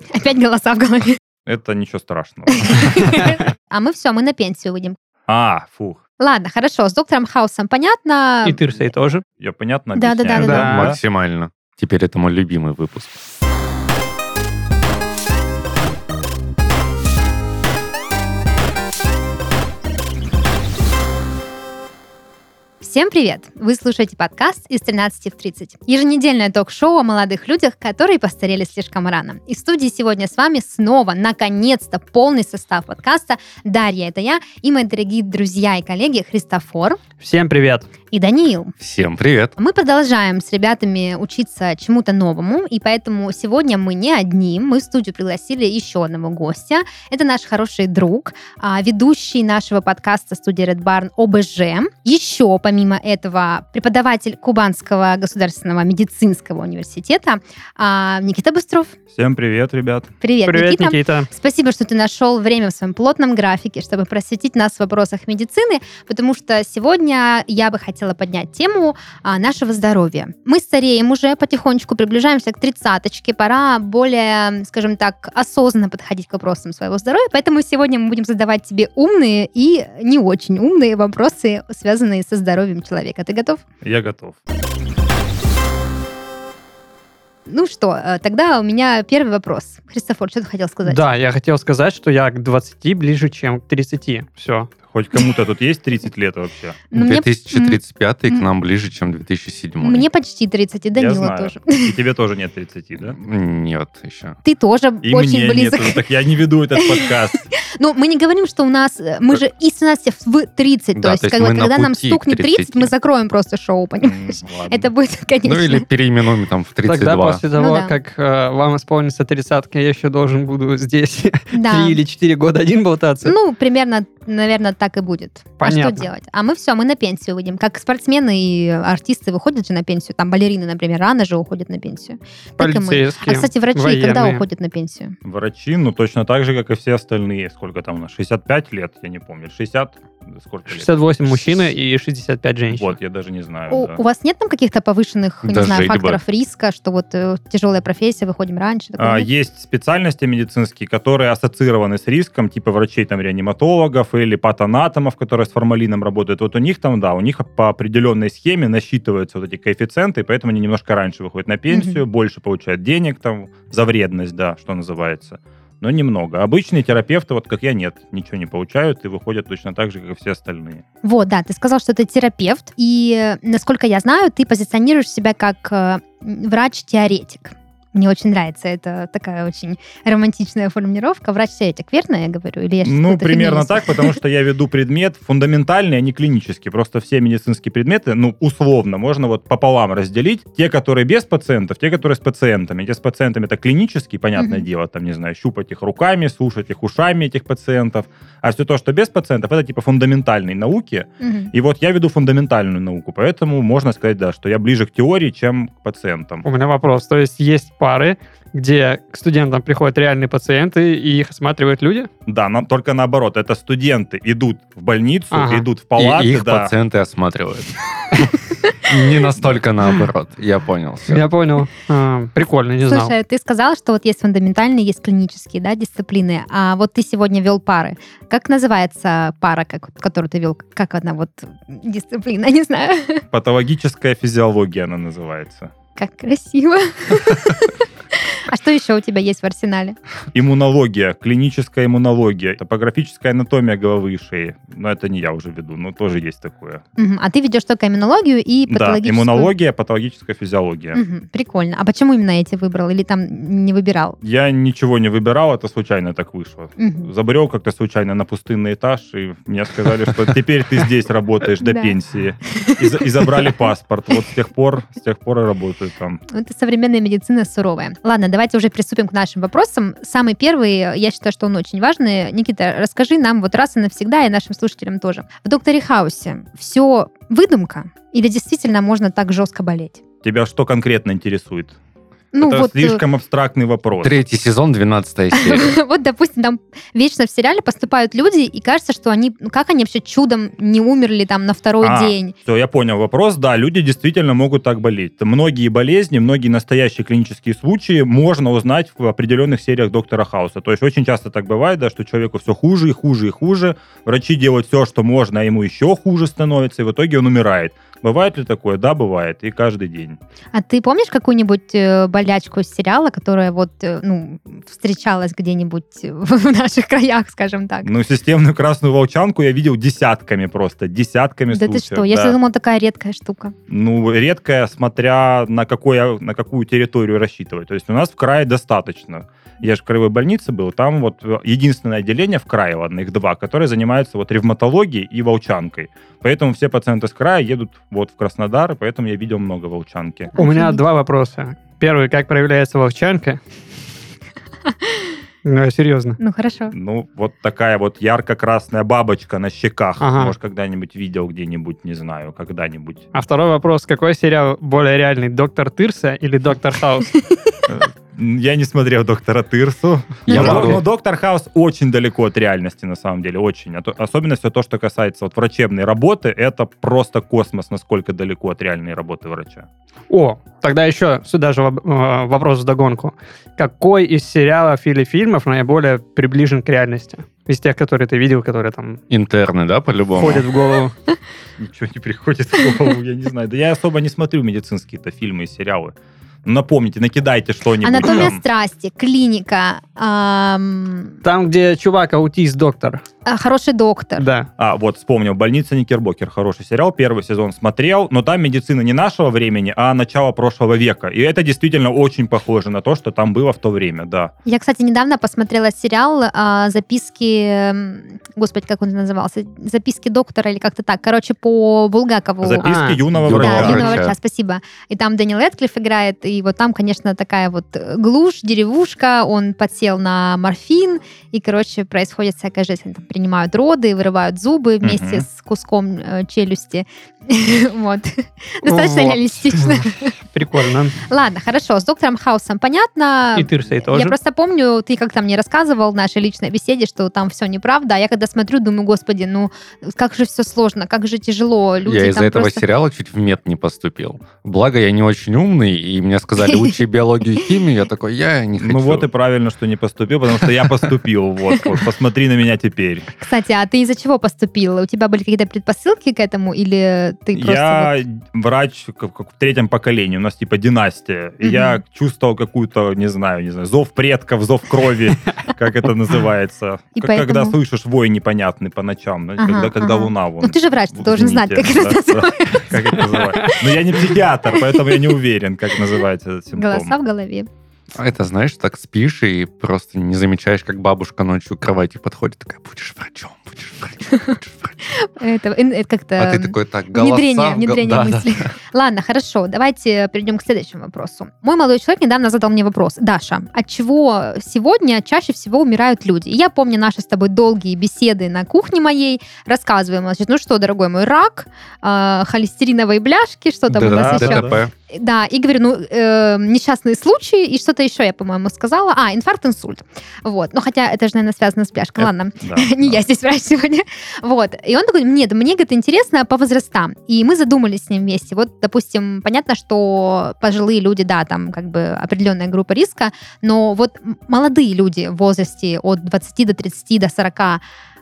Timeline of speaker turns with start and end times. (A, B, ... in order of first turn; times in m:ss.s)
0:00.1-0:01.2 A
0:01.5-0:03.0 B
0:02.6-0:05.0 A
0:05.3-0:06.0 B
0:06.2-0:08.6 A
0:08.4-0:09.2 C
0:09.4-0:11.0 B
0:10.0-0:10.8 A
0:10.3-0:13.2 D
0:10.3-0:10.9 C
0:22.8-0:37.0 A
0:37.2-0:37.9 C
0:38.1-0:38.7 A
0:38.8-0:39.6 D
0:39.6-0:58.9 A
0:59.1-1:00.1 B
1:00.2-1:23.6 A
1:00.4-1:01.3 C
1:23.8-1:24.4 B
1:27.5-1:31.0 A
1:30.8-1:34.7 C
1:34.9-1:36.8 B
1:36.9-1:38.5 A
1:36.9-1:40.1 D
1:39.8-1:41.9 A
1:41.0-1:43.2 B
1:43.0-1:44.4 D
1:44.4-1:46.0 A
1:45.0-1:47.5 B
1:46.8-1:55.9 A
1:51.0-1:52.9 D
1:54.0-1:54.9 B
1:55.4-1:57.4 D
1:56.8-2:03.3 C
1:57.6-1:58.0 A
2:01.5-2:02.0 A
2:03.2-2:15.1 A
2:05.6-2:06.1 C
2:12.6-2:14.4 C
2:15.2-2:21.6 B
2:20.7-2:23.0 C
2:22.7-2:24.0 B
2:23.7-2:29.3 A
2:25.4-2:26.2 D
2:29.0-2:50.8 B
2:41.7-2:42.0 A
2:51.0-3:04.2 A
3:02.8-3:26.4 B
3:14.4-3:14.7 A
3:21.2-3:21.5 A
3:26.4-3:32.1 C
3:32.3-3:36.7 B
3:35.3-3:35.7 C
3:36.0-3:38.3 D
3:38.8-3:41.2 D
3:41.1-3:43.1 C
3:42.9-3:53.2 A
3:53.3-3:55.7 B
3:56.0-4:00.0 A
4:00.3-4:06.8 B
4:07.0-4:09.5 A
4:08.7-4:11.0 B
4:10.9-4:14.2 A
4:14.2-4:26.2 B
4:16.8-4:17.1 A
4:21.6-4:22.0 A
4:22.5-4:22.9 A
4:26.3-4:40.0 A
4:40.2-4:41.8 B
4:42.3-4:43.0 A
4:42.4-4:44.2 B
4:44.0-4:45.8 D
4:45.3-4:52.4 A
4:51.8-5:10.2 B
5:10.5-5:17.9 A
5:17.8-5:22.4 B
5:21.5-5:23.5 A
5:23.7-5:40.4 B
5:40.4-5:40.8 A
5:40.4-5:43.4 C
5:45.4-5:46.2 C
5:46.2-5:46.7 A
5:46.7-5:53.0 B
5:50.0-5:50.3 C
5:53.1-5:57.2 C
5:57.7-6:09.7 B
6:00.3-6:00.8 D
6:00.3-6:00.8 C
6:10.1-6:19.0 C
6:19.1-6:20.4 D
6:20.2-6:20.9 C
6:21.6-6:28.4 B
6:27.8-6:31.2 A
6:31.2-6:33.0 C
6:33.3-6:34.3 A
6:34.2-6:34.5 C
6:34.6-6:44.3 B
6:44.5-6:52.7 A
6:52.4-6:54.0 B
6:52.6-6:53.0 C
6:53.1-6:54.2 D
6:53.3-7:10.1 A
7:04.8-7:05.2 B
7:08.6-7:11.0 C
7:11.1-7:22.6 A
7:13.3-7:14.2 C
7:21.8-7:29.1 D
7:26.4-7:26.7 A
7:28.6-7:33.1 B
7:33.2-7:38.0 A
7:37.3-7:56.9 B
7:41.4-7:41.8 A
7:47.0-7:47.6 A
7:49.4-7:53.7 A
7:54.7-7:55.0 A
7:56.6-7:57.5 A
7:58.0-8:04.8 D
8:05.0-8:47.6 A
8:06.2-8:08.5 D
8:23.7-8:24.7 D
8:23.9-8:24.6 B
8:32.0-8:33.0 B